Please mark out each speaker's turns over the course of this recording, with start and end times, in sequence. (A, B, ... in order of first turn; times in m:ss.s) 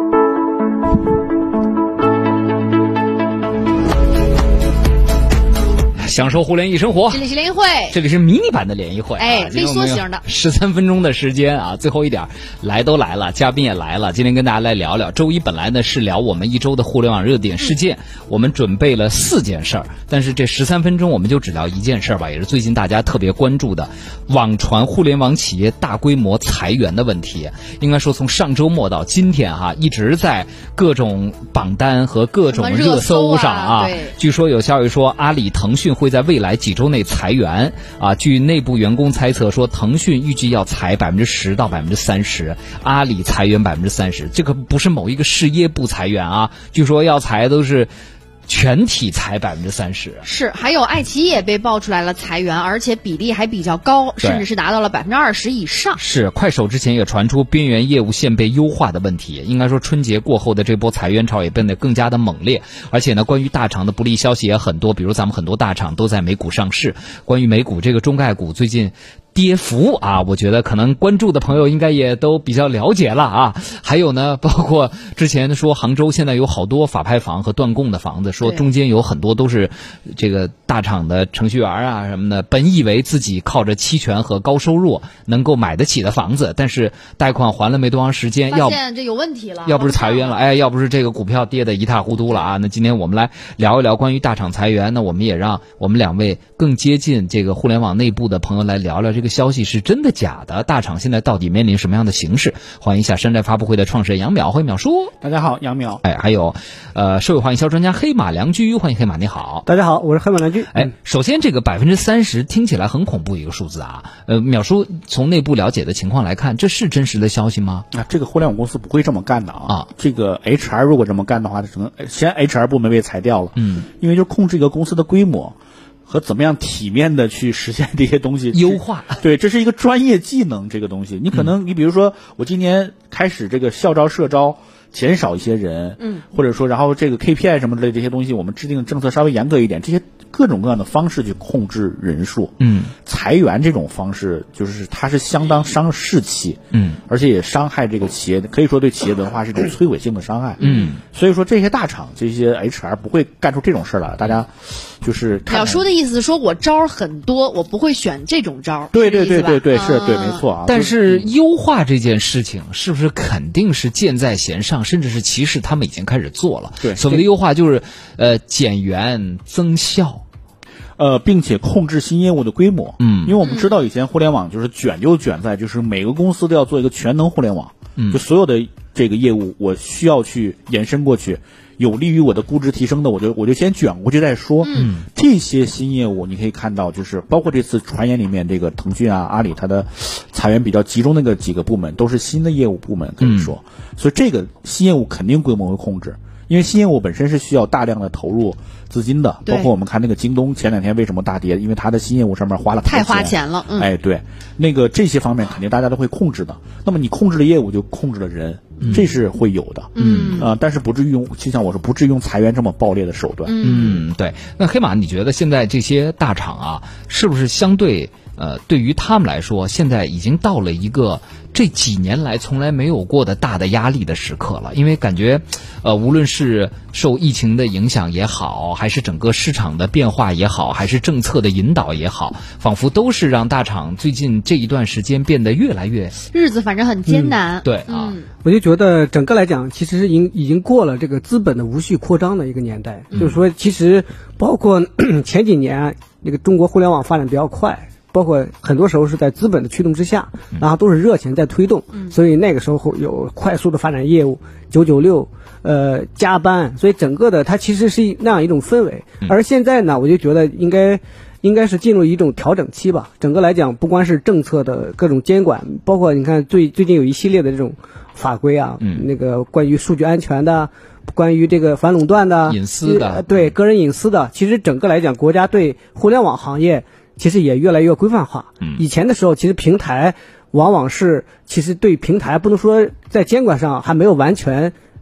0:05.9-0:07.3 A
0:07.1-0:08.0 B
0:07.9-0:47.9 A
0:09.2-0:10.2 B
0:32.5-0:34.1 B
0:48.5-0:50.2 A
0:50.2-0:56.0 B
0:54.2-0:54.4 A
0:56.0-1:28.8 A
1:28.5-1:30.4 B
1:29.6-1:45.1 A
1:45.2-1:46.0 C
1:46.0-1:49.7 A
1:49.6-1:50.9 D
1:50.7-1:57.9 A
1:57.9-2:05.5 C
2:03.6-2:03.8 A
2:06.1-2:35.9 C
2:08.5-2:09.2 A
2:22.6-2:22.9 A
2:26.7-2:27.0 A
2:30.6-2:30.9 B
2:30.6-2:31.0 A
2:35.5-2:40.5 B
2:38.9-2:41.3 C
2:40.6-2:50.2 A
2:46.8-2:47.2 C
2:51.0-3:33.6 C
2:53.0-2:53.4 A
2:53.4-2:53.7 B
2:58.0-2:58.2 A
3:04.6-3:04.9 B
3:04.7-3:05.1 A
3:13.2-3:13.5 A
3:22.8-3:23.9 B
3:28.8-3:29.1 A
3:30.0-3:30.5 A
3:30.0-3:30.5 B
3:33.4-3:34.0 B
3:33.6-3:56.2 A
3:56.2-3:58.3 B
3:57.1-3:57.4 D
3:57.6-3:58.2 A
3:58.4-4:44.7 D
4:32.4-4:33.5 A